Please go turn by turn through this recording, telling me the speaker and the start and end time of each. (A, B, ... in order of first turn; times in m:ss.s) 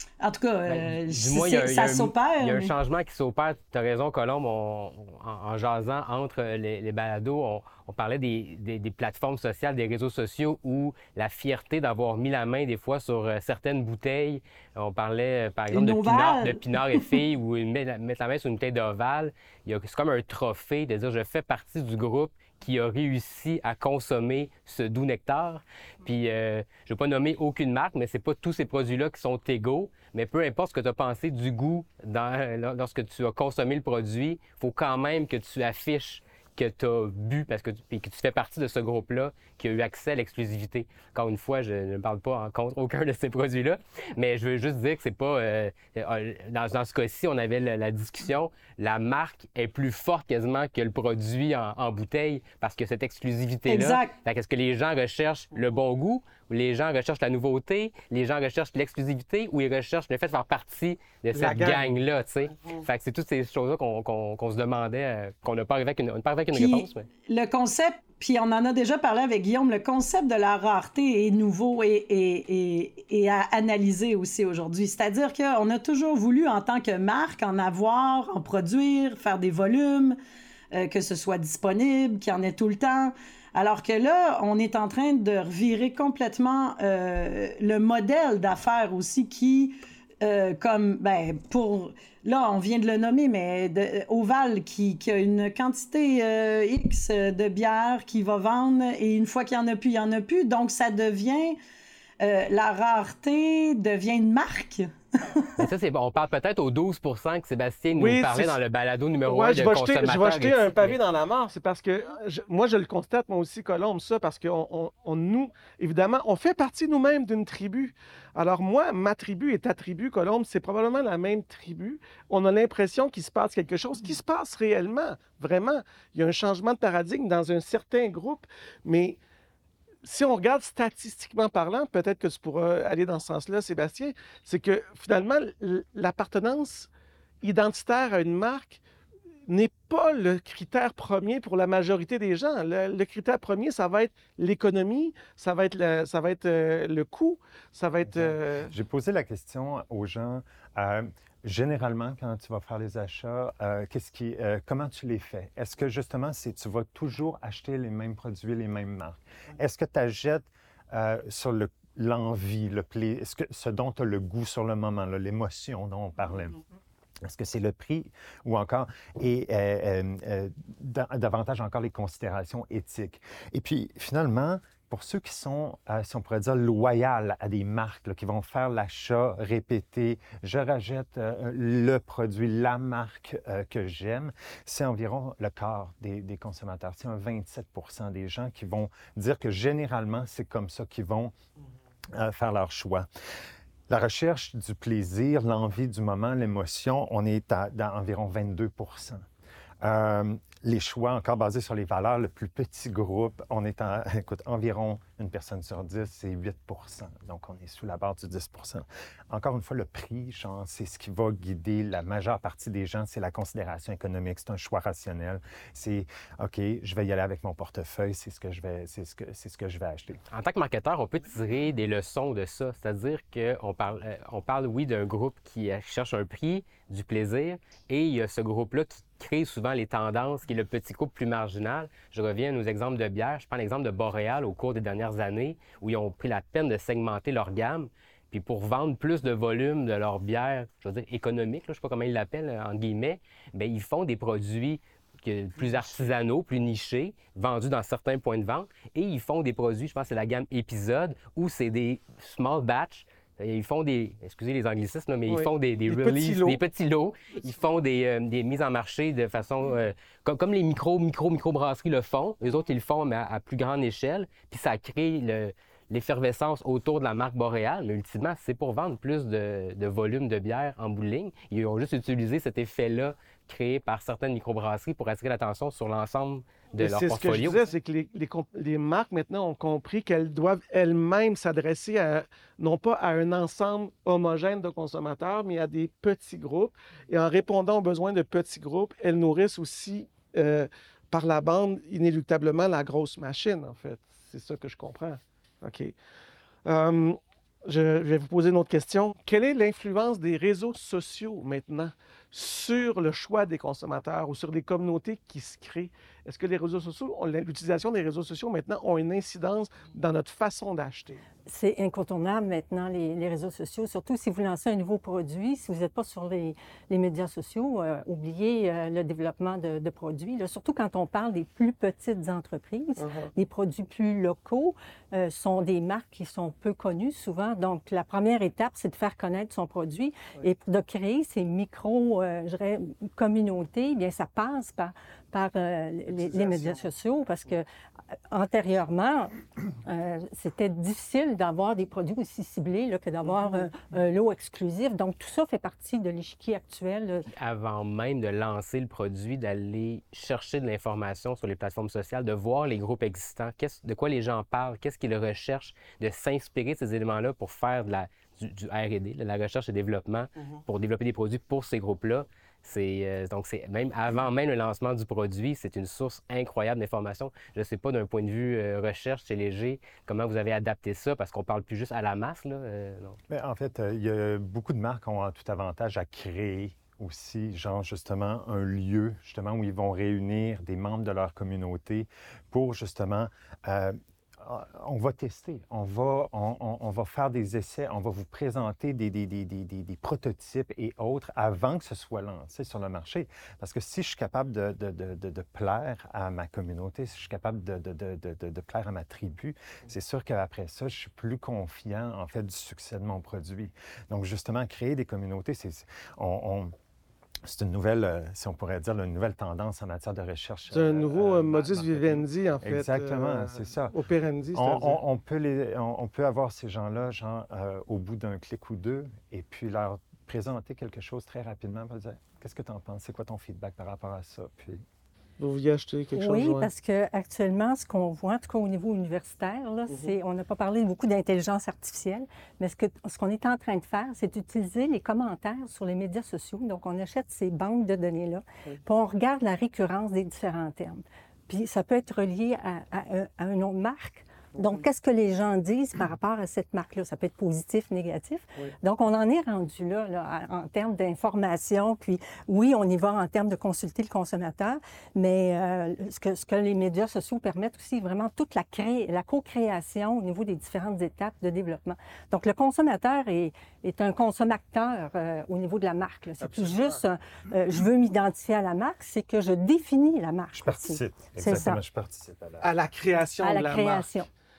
0:00.2-0:02.7 A
0:00.7-1:07.0 B
0:15.7-0:17.1 A
0:53.7-0:54.1 A
1:01.3-1:01.8 C
1:06.5-1:20.2 A
1:20.7-1:41.5 A
1:42.2-1:45.5 A
1:45.6-1:51.0 B
1:47.9-1:48.6 C
1:49.2-2:09.2 C
2:10.0-2:16.9 C
2:17.4-2:18.8 C
2:19.5-2:28.7 C
2:28.1-2:46.6 D
2:47.2-3:11.3 D
3:12.1-3:13.1 D
3:13.9-3:19.2 D
3:19.8-3:40.2 D
3:40.3-4:37.7 B
4:15.3-4:16.6 C
4:36.8-4:55.9 C
4:56.6-5:11.2 C
5:11.5-5:37.6 E
5:23.0-5:23.3 C
5:36.3-5:36.7 C
5:38.3-5:47.3 E
5:47.3-6:13.2 B
6:13.3-6:46.7 D
6:47.4-6:54.0 D
6:50.7-6:55.0 C
6:54.5-7:04.8 D
7:05.4-7:06.7 C
7:06.1-7:51.8 E
7:46.4-7:47.0 C
7:50.6-7:52.7 D
7:52.6-7:54.1 C
7:53.4-7:54.3 E